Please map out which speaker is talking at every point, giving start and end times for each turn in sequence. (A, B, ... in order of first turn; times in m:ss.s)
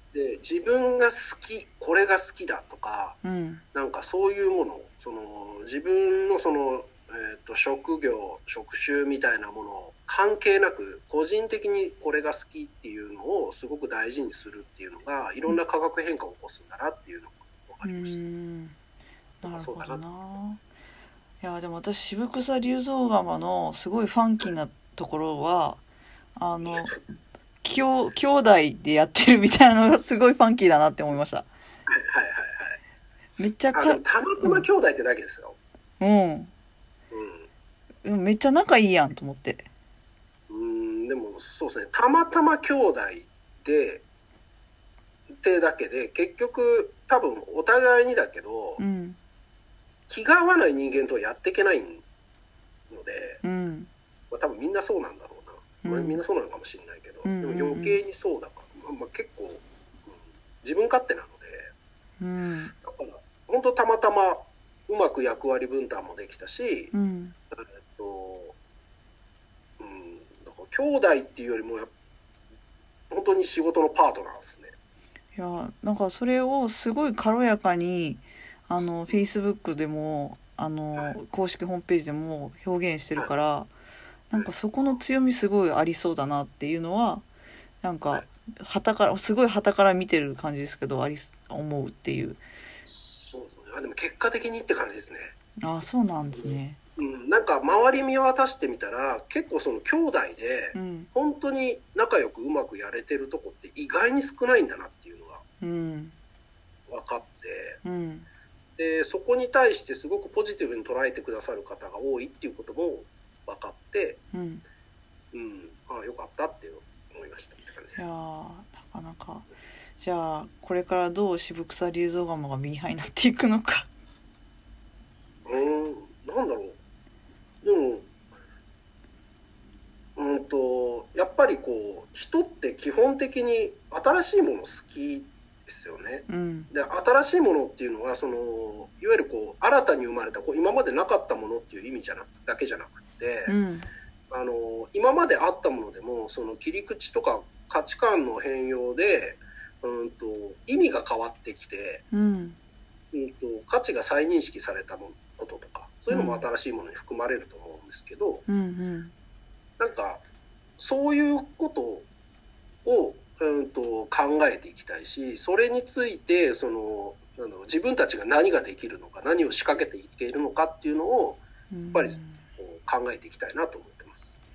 0:00.1-0:03.2 A
0:03.2-0:03.6 B
0:03.8-0:18.2 A
0:17.8-0:18.8 B
0:19.4-0:20.6 B
0:19.4-0:20.0 A
0:21.4-0:25.8 B
0:26.4-0:27.0 B
0:26.6-0:27.0 A
0:27.6-0:31.5 B
0:31.9-0:32.8 A
0:33.4-0:34.6 B
0:33.7-0:35.6 A
0:36.0-0:36.5 B
0:37.1-0:37.5 A
0:38.0-0:39.7 B
0:40.5-0:44.0 A
0:45.3-0:48.8 A
0:48.8-0:49.2 B
0:50.1-0:52.0 A
0:52.9-0:53.4 A
0:53.4-0:53.9 B
0:54.3-1:01.7 A
0:55.8-0:56.2 B
0:57.2-0:58.0 B
1:02.2-1:02.7 B
1:02.8-1:06.9 A
1:06.9-1:07.4 B
1:07.9-1:08.6 A
1:09.8-1:11.9 A
1:13.1-1:14.7 A
1:15.4-1:23.7 B
1:24.3-1:27.2 B
1:27.8-1:32.4 B
1:32.9-1:35.3 A
1:35.6-1:36.8 B
1:36.3-1:45.4 A
1:40.7-1:41.1 B
1:45.6-1:46.1 B
1:46.9-1:47.8 A
1:47.8-1:48.3 B
1:48.8-1:54.2 A
1:54.3-1:54.6 B
1:55.3-1:58.1 A
1:58.0-1:59.5 B
2:00.0-2:03.9 B
2:05.4-2:06.8 A
2:07.6-2:08.1 A
2:10.2-2:23.6 A
2:16.3-2:16.7 B
2:23.5-2:23.9 B
2:24.3-2:32.0 A
2:32.1-2:32.6 B
2:33.1-2:38.5 A
2:36.1-2:36.5 B
2:38.5-2:39.1 B
2:39.8-2:40.2 A
2:40.8-2:42.1 A
2:42.8-2:54.3 A
2:51.7-2:52.4 B